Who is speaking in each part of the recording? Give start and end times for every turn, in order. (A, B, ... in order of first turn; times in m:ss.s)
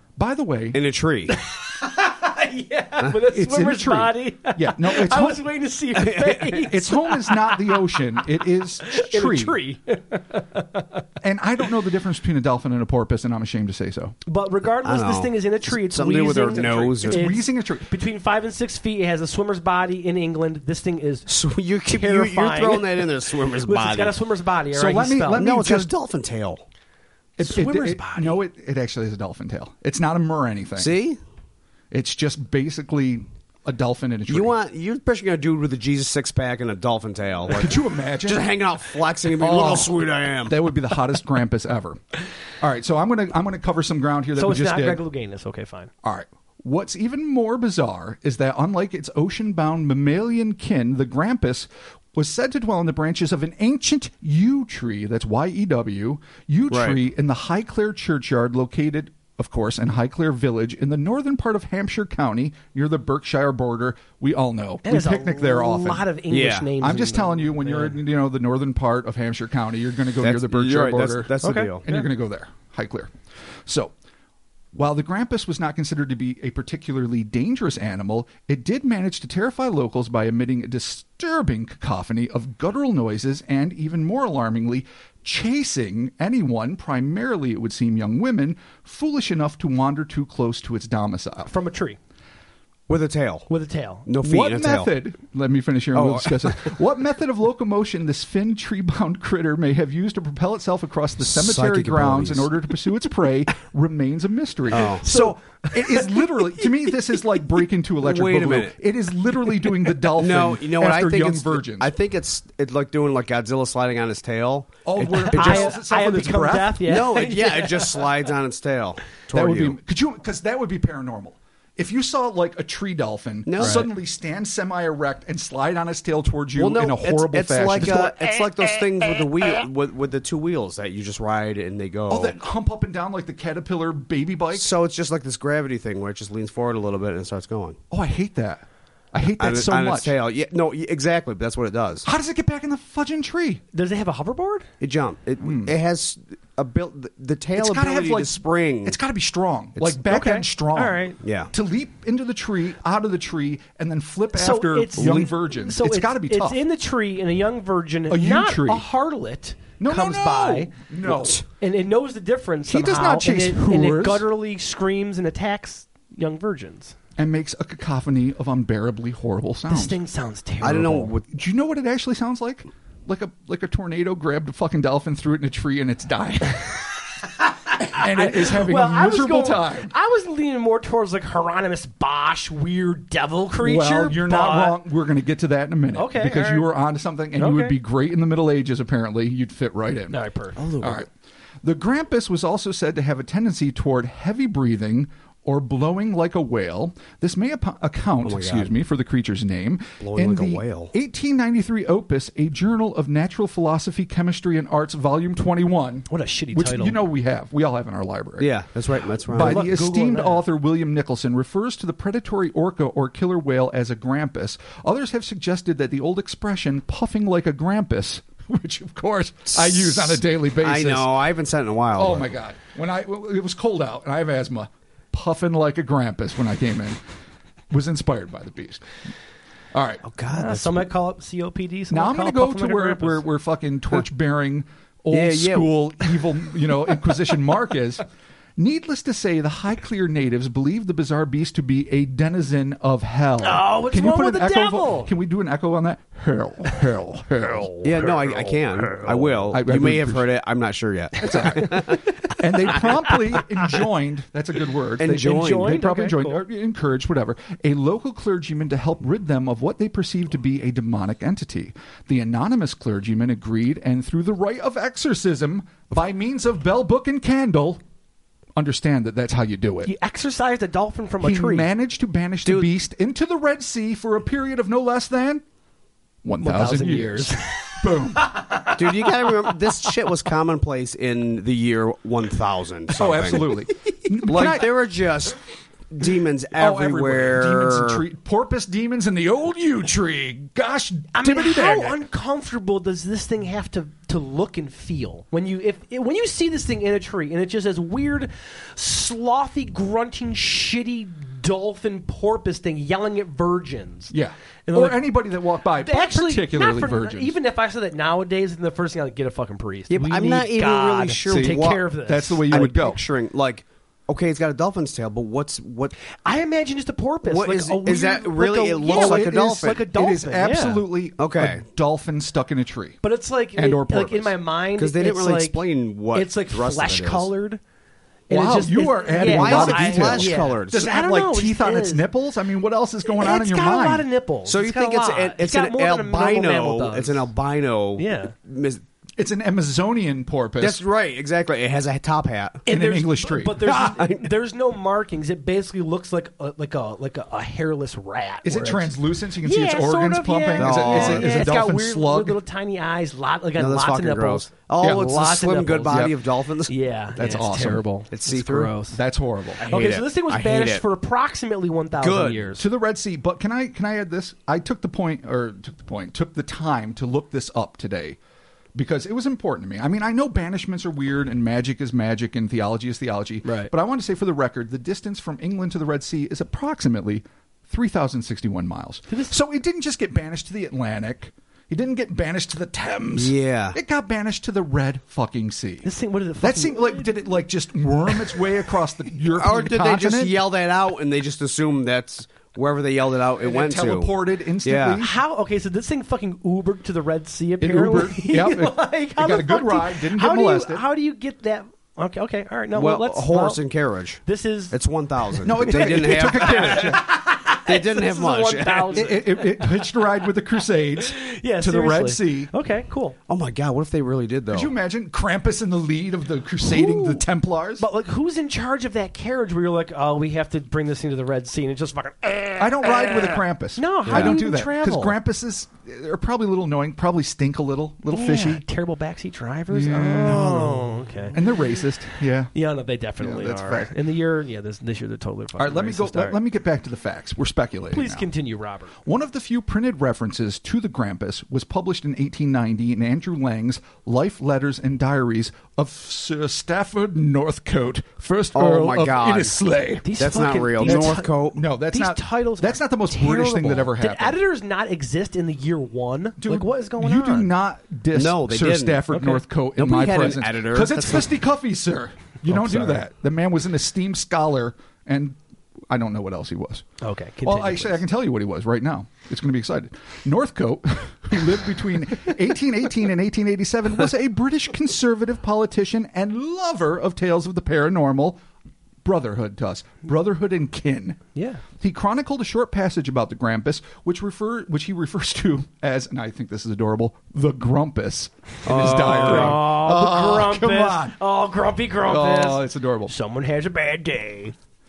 0:00.2-0:00.8 A
0:00.7-0:01.4 B
0:01.3-0:08.0 C
0:03.3-0:05.4 A
0:06.0-0:06.7 B
0:06.7-0:09.6 A
0:08.8-0:11.0 C
0:11.2-0:14.2 A
0:14.3-0:21.3 C
0:14.8-0:17.3 B
0:17.0-0:17.9 A
0:21.3-0:24.2 B
0:21.9-0:23.1 C
0:23.6-0:25.5 C
0:24.7-0:25.9 A
0:25.4-0:26.6 B
0:27.4-0:30.9 A
0:27.4-0:28.4 C
0:30.8-0:31.2 B
0:31.9-0:34.6 A
0:34.3-0:40.6 B
0:37.5-0:38.5 A
0:39.4-0:42.0 A
0:42.6-0:45.0 A
0:44.4-0:45.9 C
0:46.0-1:06.1 A
0:56.7-0:57.0 B
1:04.8-1:08.0 C
1:06.3-1:06.7 B
1:06.8-1:13.1 A
1:10.2-1:11.8 B
1:11.4-1:12.1 C
1:13.6-1:13.9 A
1:14.7-1:31.5 A
1:31.5-1:32.0 C
1:32.9-1:33.5 B
1:33.5-1:34.1 C
1:34.1-1:34.9 B
1:34.2-1:51.9 A
1:35.9-1:36.8 B
1:41.2-1:42.6 B
1:44.7-1:45.1 B
1:45.0-1:46.2 C
1:48.0-1:48.8 B
1:50.2-1:55.7 B
1:54.8-1:57.0 A
1:55.3-1:58.1 C
1:56.9-1:59.8 B
1:59.3-2:08.1 A
2:03.5-2:03.9 B
2:06.6-2:12.4 B
2:07.8-2:08.2 C
2:12.1-2:14.7 A
2:14.6-2:17.8 B
2:17.9-2:20.1 A
2:19.4-2:22.1 B
2:22.0-2:23.6 A
2:23.7-2:24.7 C
2:24.8-2:29.0 B
2:25.4-2:25.7 A
2:27.6-2:36.6 A
2:30.0-2:31.2 C
2:31.2-2:31.5 B
2:34.3-2:40.7 C
2:35.0-2:35.3 B
2:38.1-2:38.8 A
2:39.8-2:41.4 A
2:41.1-2:41.4 B
2:41.6-2:47.0 C
2:42.7-2:44.3 A
2:47.2-2:50.0 A
2:49.7-2:51.1 C
2:50.6-2:51.3 B
2:51.3-2:57.0 A
2:57.7-2:59.9 A
2:57.7-3:04.8 C
3:03.6-3:10.2 A
3:05.9-3:06.7 C
3:07.4-3:07.8 C
3:10.1-3:10.6 C
3:10.6-3:11.0 B
3:10.8-3:11.1 A
3:11.6-3:28.5 A
3:18.2-3:18.7 B
3:20.0-3:20.9 B
3:26.1-3:27.0 C
3:28.4-3:29.6 B
3:29.3-3:41.2 A
3:29.3-3:30.4 C
3:39.5-3:42.3 B
3:42.0-3:47.0 A
3:47.7-3:48.8 A
3:49.7-3:50.0 A
3:50.0-3:50.9 B
3:50.3-3:53.2 C
3:51.9-3:58.0 A
3:55.1-3:56.1 B
3:58.6-4:07.8 A
4:03.4-4:05.1 C
4:07.7-4:09.3 C
4:07.8-4:12.1 B
4:09.5-4:10.3 A
4:11.2-4:27.8 A
4:11.3-4:12.0 C
4:15.0-4:15.8 B
4:15.2-4:16.4 C
4:28.6-4:29.9 A
4:29.8-4:31.7 C
4:31.2-4:35.4 A
4:32.4-4:32.7 B
4:36.2-4:38.3 A
4:36.4-4:39.7 C
4:38.8-4:43.7 B
4:43.0-4:44.7 A
4:44.2-4:45.4 B
4:45.9-4:48.0 B
4:46.6-4:52.0 A
4:51.1-5:04.1 C
5:04.1-5:07.4 A
5:04.7-5:05.1 C
5:05.8-5:12.7 C
5:09.9-5:11.8 B
5:11.3-5:13.0 A
5:12.5-5:16.0 B
5:16.2-5:20.9 C
5:17.2-5:19.9 B
5:18.9-5:23.0 A
5:21.2-5:21.6 B
5:23.0-5:25.6 C
5:23.6-5:24.4 A
5:24.8-5:27.3 B
5:26.1-5:27.6 C
5:28.3-5:32.1 C
5:28.3-5:34.1 A
5:29.1-5:30.9 B
5:33.1-5:37.3 C
5:34.5-5:38.8 B
5:38.0-5:38.3 C
5:39.2-5:40.8 A
5:40.6-5:42.6 B
5:42.7-5:56.1 C
5:42.7-5:43.9 A
5:43.7-5:44.3 B
5:48.4-5:52.4 A
5:50.6-5:51.5 B
5:53.6-5:56.7 B
5:54.8-5:55.2 A
5:55.9-5:56.2 A
5:56.7-5:59.0 C
5:57.1-5:57.9 A
5:58.1-5:58.8 B
5:58.8-5:59.6 A
5:59.6-6:00.9 B
5:59.6-6:02.7 C
6:02.0-6:02.5 B
6:02.6-6:08.2 A
6:08.8-6:30.4 A
6:13.4-6:13.7 C
6:19.1-6:19.4 C
6:23.2-6:23.8 B
6:25.8-6:27.1 C
6:29.3-6:34.1 B
6:33.4-6:35.2 A
6:34.6-6:35.0 B
6:35.0-6:43.6 C
6:37.6-6:40.8 A
6:42.7-6:49.1 B
6:44.3-6:50.0 C
6:45.4-6:47.1 A
6:48.9-6:52.5 A
6:51.0-6:53.2 C
6:53.3-6:54.7 B
6:54.5-6:57.9 A
6:56.6-6:57.2 C
6:57.8-7:05.2 C
7:02.6-7:08.6 A
7:04.1-7:04.4 B
7:08.1-7:11.4 C
7:09.7-7:12.5 A
7:12.5-7:16.4 C
7:13.2-7:13.9 A
7:15.6-7:18.3 A
7:17.9-7:18.9 C
7:19.0-7:30.2 A
7:28.5-7:29.6 B
7:30.0-7:31.3 C
7:30.2-7:31.6 B
7:30.8-7:34.4 A
7:31.9-7:37.5 C
7:36.4-7:46.8 A
7:38.1-7:41.3 B
7:42.5-7:43.0 C
7:47.0-7:48.0 C
7:47.4-7:58.4 A
7:59.0-8:01.2 A
8:01.4-8:01.6 C
8:01.8-8:11.2 A
8:08.6-8:09.7 B
8:08.9-8:14.6 C
8:12.0-8:13.1 A